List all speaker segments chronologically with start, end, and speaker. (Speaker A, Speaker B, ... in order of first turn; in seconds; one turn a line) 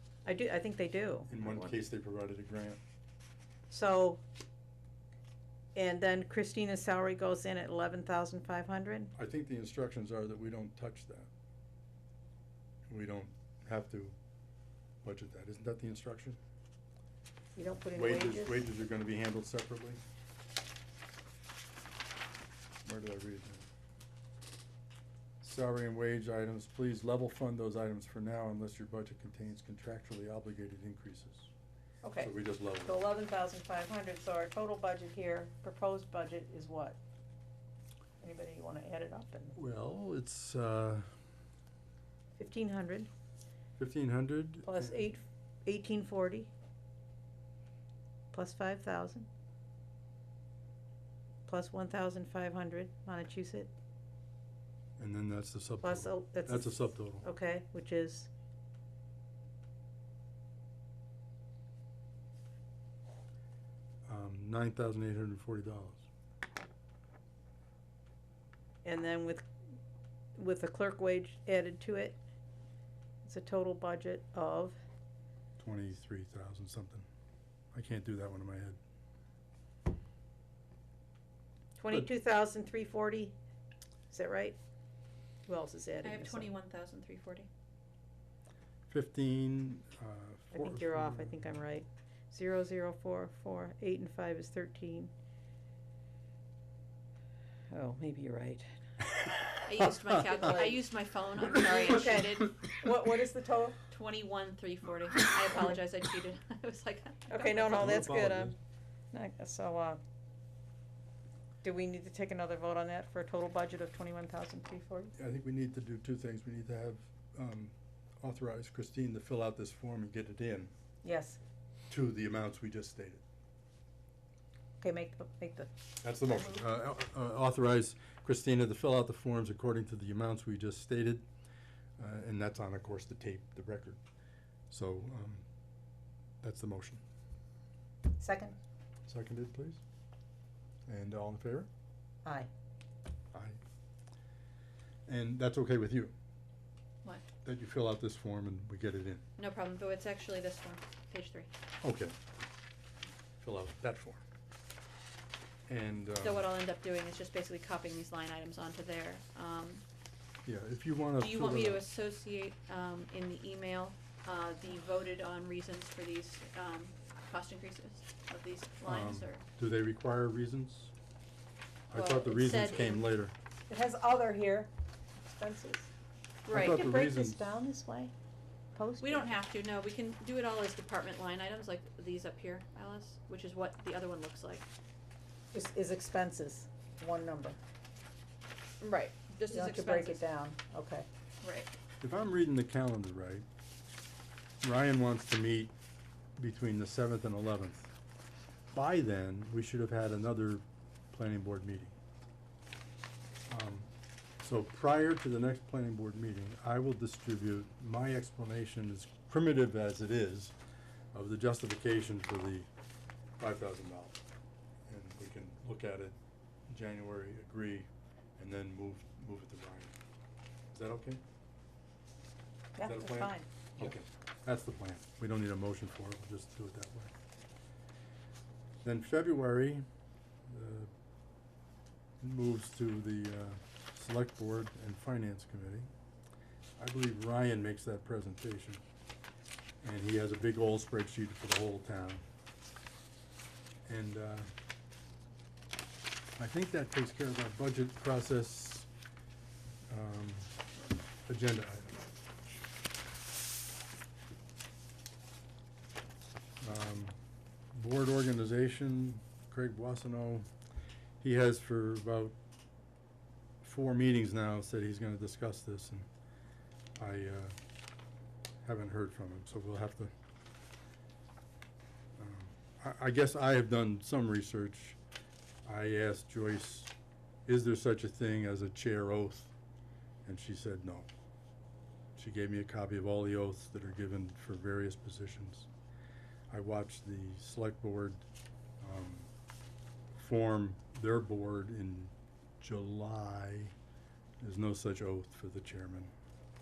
Speaker A: 0.2-1.8
Speaker B: 1.3-2.8
Speaker A: 3.7-4.2
Speaker A: 5.8-9.1
Speaker B: 9.2-11.3
Speaker B: 12.9-14.2
Speaker B: 15.0-16.4
Speaker A: 17.6-18.6
Speaker B: 17.9-20.0
Speaker B: 22.9-23.7
Speaker B: 25.4-31.5
Speaker A: 32.0-32.3
Speaker B: 32.2-33.0
Speaker A: 32.9-37.0
Speaker A: 38.2-39.6
Speaker B: 39.5-41.1
Speaker A: 42.4-43.1
Speaker B: 43.8-45.1
Speaker A: 44.6-46.5
Speaker A: 48.3-49.3
Speaker A: 51.5-53.7
Speaker B: 55.0-57.2
Speaker A: 55.8-58.3
Speaker B: 64.1-66.0
Speaker A: 68.8-69.5
Speaker A: 70.4-72.2
Speaker A: 73.2-74.8
Speaker B: 75.6-77.1
Speaker B: 77.7-78.8
Speaker A: 81.8-83.4
Speaker A: 84.1-84.6
Speaker A: 85.5-86.5
Speaker C: 86.0-87.5
Speaker B: 88.9-91.6
Speaker A: 90.5-95.1
Speaker A: 97.7-98.8
Speaker C: 99.6-102.7
Speaker A: 100.3-100.8
Speaker A: 101.5-103.8
Speaker C: 103.9-108.1
Speaker A: 107.3-108.6
Speaker B: 107.7-108.6
Speaker A: 109.1-110.0
Speaker A: 111.6-115.1
Speaker B: 115.2-120.7
Speaker A: 121.0-121.4
Speaker B: 121.9-123.2
Speaker A: 124.8-125.7
Speaker B: 126.0-131.3
Speaker A: 126.2-126.6
Speaker B: 132.0-134.0
Speaker B: 134.7-135.5
Speaker B: 136.4-137.0
Speaker A: 138.2-138.6
Speaker B: 139.1-139.8
Speaker B: 140.9-141.7
Speaker B: 143.3-143.6
Speaker B: 145.1-146.1
Speaker B: 147.4-149.2
Speaker C: 149.4-151.5
Speaker B: 151.8-152.2
Speaker B: 153.4-154.2
Speaker B: 155.7-156.5
Speaker C: 156.2-159.8
Speaker B: 160.5-161.8
Speaker C: 161.2-169.4
Speaker B: 168.8-170.9
Speaker B: 171.9-173.3
Speaker C: 171.9-173.0
Speaker A: 173.7-175.9
Speaker C: 176.5-176.9
Speaker B: 176.5-177.5
Speaker A: 176.6-178.1
Speaker A: 178.8-179.4
Speaker C: 179.0-184.7
Speaker A: 185.5-187.6
Speaker C: 188.8-190.2
Speaker A: 189.5-191.1
Speaker C: 191.4-191.7
Speaker B: 192.0-193.5
Speaker B: 194.6-195.7
Speaker B: 196.4-197.9
Speaker B: 198.7-202.0
Speaker B: 203.5-203.9
Speaker B: 204.4-210.6
Speaker B: 211.1-212.7
Speaker B: 213.4-214.2
Speaker B: 214.9-216.2
Speaker B: 216.7-219.9
Speaker B: 220.7-221.2
Speaker A: 222.8-223.5
Speaker B: 222.8-227.1
Speaker B: 228.8-229.8
Speaker B: 230.5-230.9
Speaker B: 232.2-235.9
Speaker B: 236.8-238.8
Speaker B: 239.8-242.3
Speaker B: 243.9-244.5
Speaker B: 246.4-248.9
Speaker B: 249.9-250.5
Speaker B: 251.3-252.0
Speaker B: 256.6-257.2
Speaker B: 257.7-260.5
Speaker B: 261.2-262.4
Speaker B: 263.6-266.1
Speaker B: 267.0-267.6
Speaker B: 268.6-270.1
Speaker B: 272.2-275.0
Speaker B: 275.7-276.9
Speaker B: 277.5-279.5
Speaker B: 280.2-281.1
Speaker B: 282.2-285.7
Speaker B: 286.5-288.2
Speaker B: 288.8-289.3
Speaker B: 290.1-293.7
Speaker B: 294.4-296.1